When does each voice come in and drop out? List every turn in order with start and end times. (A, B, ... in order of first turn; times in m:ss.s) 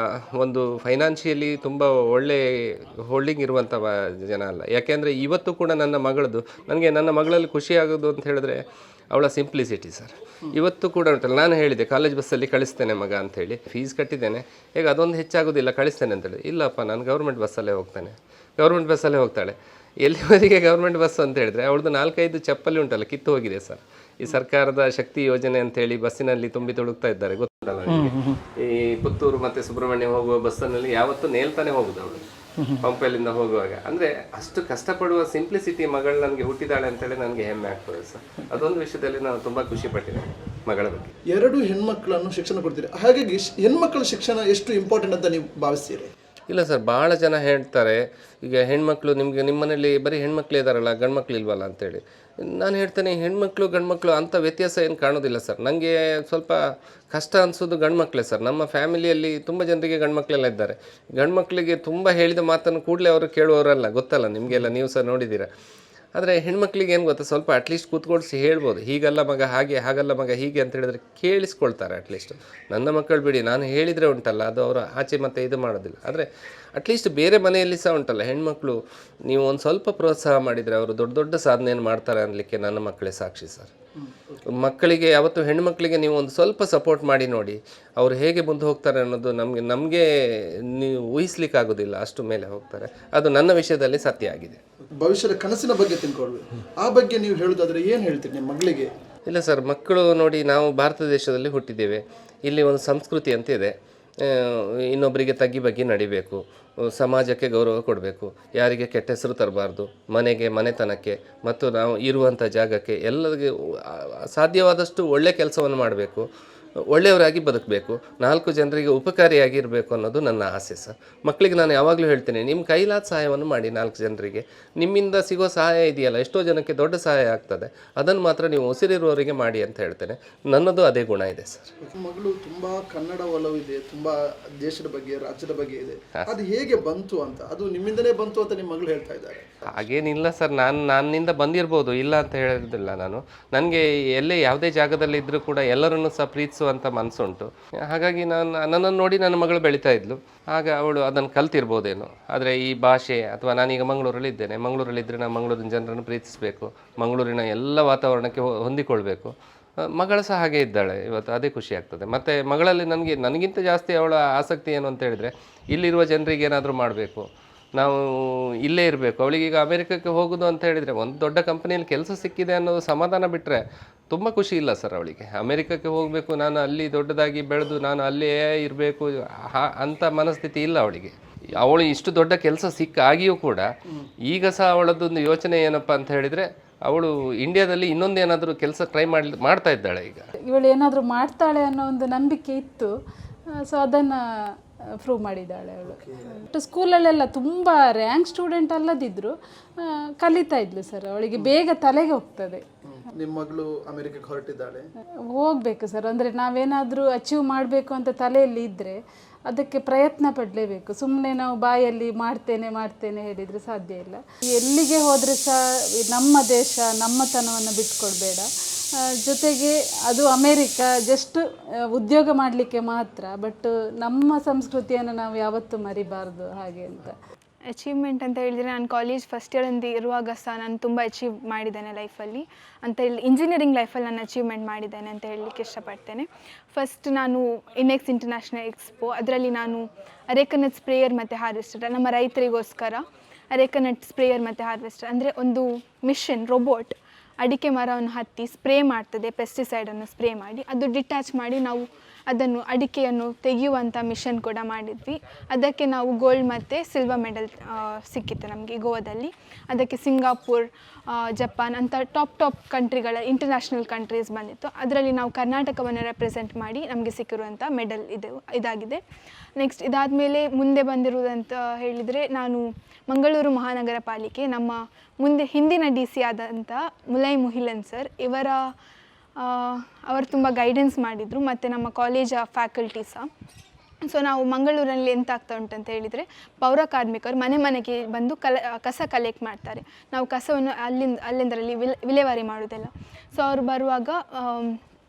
0:00.3-0:32.2 A
0:27.9-0:28.4 B
0:32.6-0:32.8 B
0:32.8-0:41.1 A
0:41.3-0:46.1 B
0:46.5-1:05.5 A
1:06.1-1:23.7 A
1:24.0-1:24.4 B
1:24.6-1:30.0 A
1:30.7-1:34.6 A
1:35.0-1:38.9 B
1:39.3-1:56.2 A
1:56.9-2:11.7 A
2:11.8-2:19.5 B
2:19.7-3:03.6 A
3:04.2-3:10.3 A
3:10.4-3:12.9 C
3:13.5-3:22.6 C
3:15.8-3:16.4 B
3:22.8-3:24.9 B
3:25.2-3:47.2 C
3:47.7-4:29.0 D
4:29.6-4:38.7 D
4:39.4-4:43.3 D
4:44.0-4:54.8 D